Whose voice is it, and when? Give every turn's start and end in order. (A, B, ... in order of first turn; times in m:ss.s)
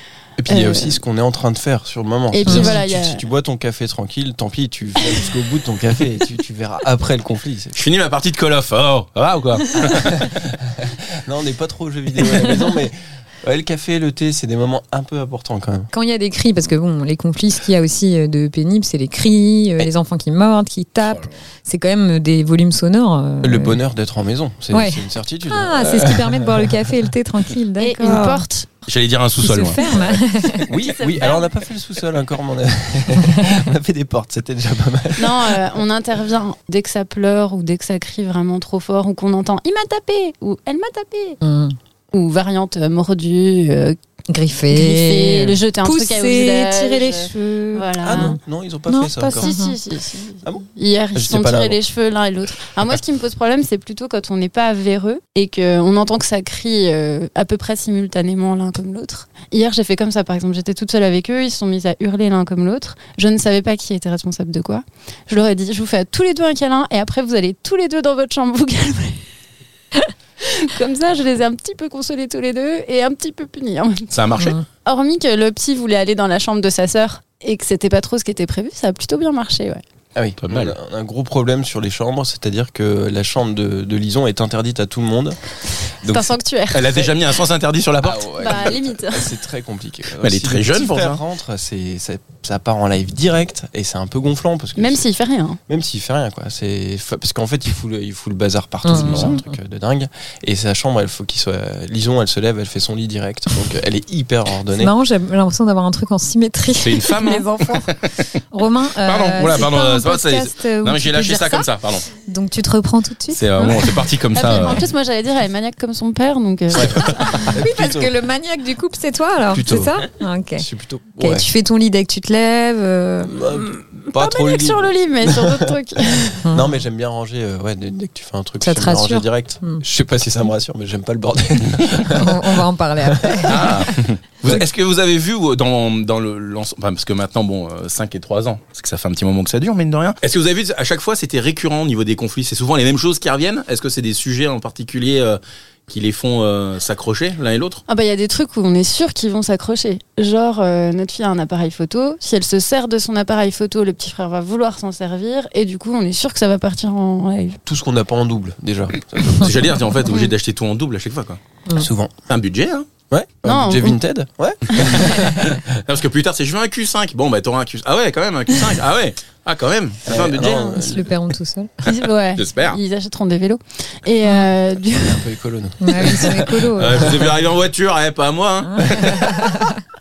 0:00.4-0:07.8 A
0:00.5-0:01.0 B
0:02.3-0:03.2 B
0:02.4-0:02.7 C
0:07.7-0:10.1 D
0:09.9-0:15.9 A
0:15.9-0:23.8 C
0:23.4-0:27.0 A
0:24.7-0:28.4 C
0:27.8-0:28.7 B
0:28.9-0:30.2 D
0:29.4-0:30.7 C
0:30.7-0:35.8 A
0:30.7-0:31.5 B
0:35.2-0:41.4 B
0:41.4-0:41.8 C
0:42.1-0:44.0 B
0:44.3-0:49.7 C
0:44.7-0:48.4 B
0:48.0-0:49.5 A
0:49.2-1:09.2 B
0:51.1-0:51.8 A
1:10.4-1:14.1 B
1:14.1-1:14.6 D
1:14.4-1:14.6 C
1:14.8-1:19.8 B
1:20.2-1:26.4 A
1:20.4-1:20.7 D
1:26.1-1:27.1 B
1:26.7-1:28.7 D
1:28.0-1:35.0 A
1:28.4-1:29.3 B
1:30.2-1:31.2 D
1:34.8-1:35.6 B
1:35.7-1:44.9 A
1:38.8-1:39.5 C
1:38.9-1:39.3 D
1:44.8-1:47.9 C
1:46.8-1:48.3 D
1:48.5-1:51.7 C
1:49.0-1:52.0 D
1:52.2-1:53.8 C
1:53.3-1:54.9 D
1:53.6-1:57.6 B
1:56.7-1:58.1 A
1:57.5-2:00.6 C
1:59.5-2:01.5 A
2:01.2-2:03.4 C
2:03.2-2:13.7 A
2:03.5-2:06.4 B
2:08.6-2:09.8 C
2:12.1-2:14.0 C
2:13.5-2:27.8 D
2:27.9-2:37.6 B
2:37.6-2:39.9 A
2:39.3-2:41.4 D
2:40.0-2:40.3 B
2:41.7-2:42.1 A
2:42.3-2:42.8 D
2:43.1-2:45.8 A
2:43.4-2:44.0 B
2:44.7-2:45.0 B
2:45.7-2:50.8 D
2:50.0-2:51.1 A
2:50.8-2:51.7 C
2:51.8-2:55.3 B
2:52.3-2:52.8 D
2:54.2-2:54.5 C
2:54.9-2:57.2 A
2:55.8-2:57.3 C
2:56.8-2:59.4 D
2:58.6-2:59.8 C
2:58.8-2:59.1 A